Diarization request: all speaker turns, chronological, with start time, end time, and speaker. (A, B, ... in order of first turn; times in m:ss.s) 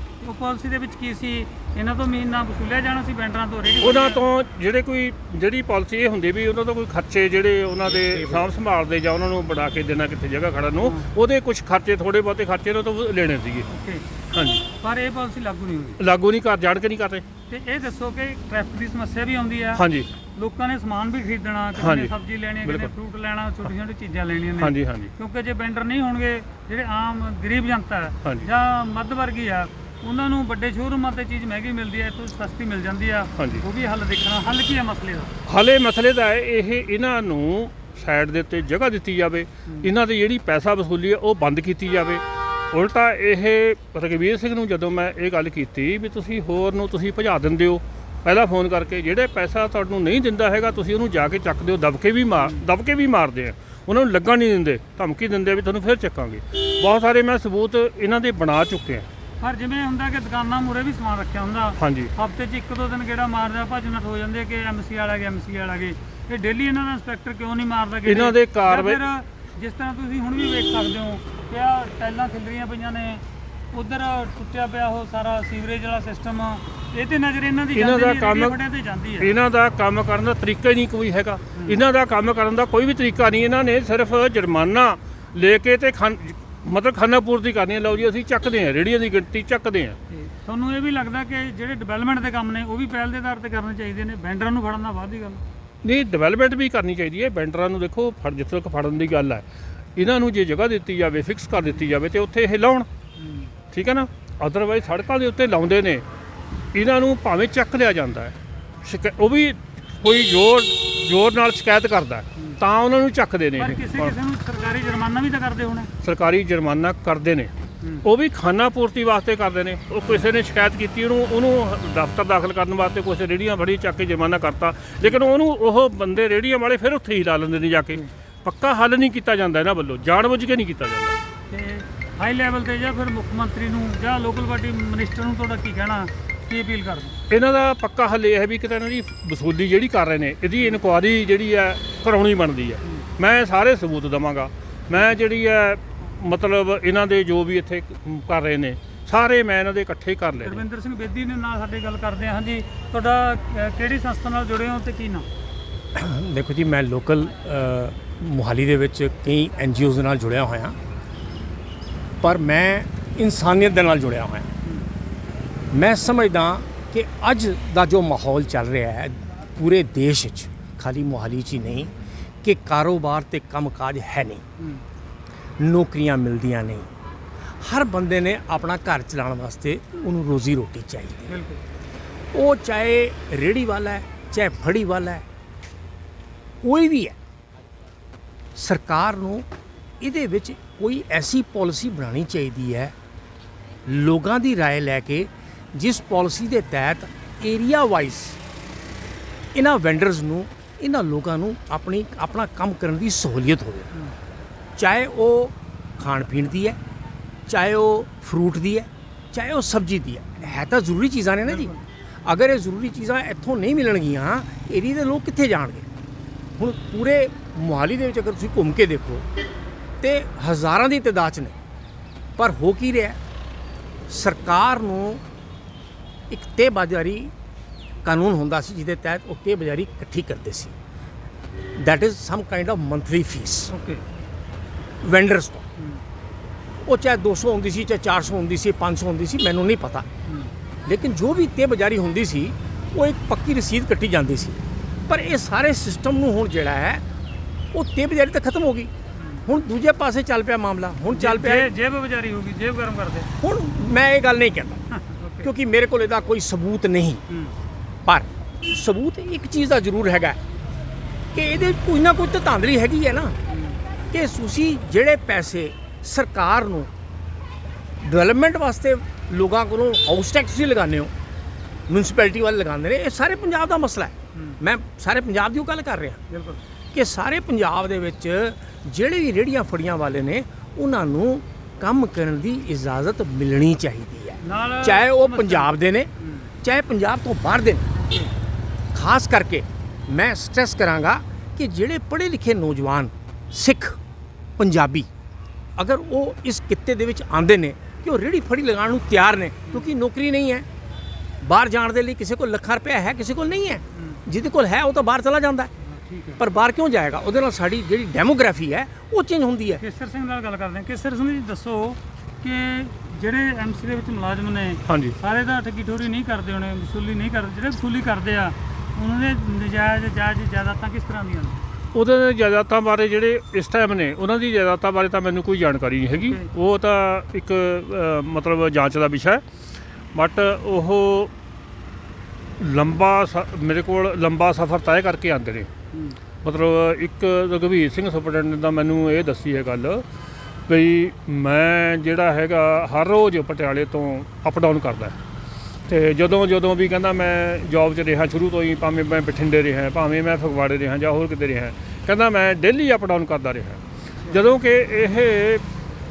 0:00.2-0:04.2 A
0:03.8-0:13.7 B
0:08.0-0:08.4 C
0:10.8-0:11.1 A
0:13.7-0:14.1 A
0:14.3-0:14.7 B
0:14.8-0:16.0 A
0:16.0-0:17.2 B
0:17.5-0:35.3 A
0:19.8-0:20.1 B
0:21.8-0:22.1 B
0:22.6-0:22.9 B
0:24.6-0:25.1 B
0:33.4-0:33.6 B
0:35.5-0:59.1 B
0:59.4-1:19.3 A
1:01.8-1:02.1 B
1:08.0-1:09.0 B
1:17.7-1:18.6 B
1:19.2-1:30.0 B
1:30.1-1:35.4 A
1:35.8-1:42.9 B
1:43.2-1:43.5 A
1:43.7-1:46.0 B
1:46.7-1:54.1 B
1:53.6-1:55.9 A
1:56.0-2:11.2 B
2:11.5-2:17.2 A
2:17.3-2:30.6 B
2:30.4-2:35.2 A
2:35.9-2:40.8 C
2:42.2-2:44.5 C
2:45.7-2:51.9 C
2:52.4-2:54.4 C
2:55.6-2:56.9 C
2:57.6-3:01.3 C
3:01.3-3:01.6 A
3:02.3-3:05.2 C
3:06.6-3:07.2 C
3:08.5-3:09.4 C
3:10.0-3:12.9 C
3:13.8-3:18.4 C
3:19.5-3:23.9 C
3:24.8-3:26.8 C
3:27.5-3:35.9 C
3:36.6-3:39.2 C
3:40.0-3:41.5 C
3:42.4-3:43.2 C
3:44.1-3:45.2 C
3:46.3-3:47.3 C
3:48.0-3:50.7 C
3:51.8-3:53.7 C
3:53.7-3:54.0 A
3:55.0-3:55.6 C
3:56.8-4:00.0 C
4:00.8-4:07.0 C
4:07.7-4:08.9 C
4:09.2-4:09.4 A
4:09.4-4:11.7 C
4:11.1-4:13.3 A
4:13.4-4:14.8 C
4:14.9-4:15.5 A
4:15.4-4:17.2 C
4:18.0-4:20.4 C
4:21.3-4:23.4 C
4:23.5-4:23.8 A
4:24.1-4:26.9 C
4:28.0-4:31.1 C
4:31.9-4:36.2 C
4:36.3-4:36.6 A
4:36.9-4:46.1 C
4:44.4-4:46.5 A
4:46.6-4:47.9 C
4:48.9-4:54.0 C
4:54.6-4:55.1 C
4:55.8-5:00.6 C
5:01.4-5:05.7 C
5:05.9-5:06.4 A
5:06.4-5:09.8 C
5:09.8-5:21.6 A
5:14.9-5:15.2 B
5:21.9-5:29.4 B
5:26.2-5:26.5 A
5:30.1-5:31.3 B
5:32.6-5:35.7 B
5:35.9-5:36.2 A
5:36.4-5:40.1 B
5:40.7-5:45.2 B
5:45.9-5:55.6 B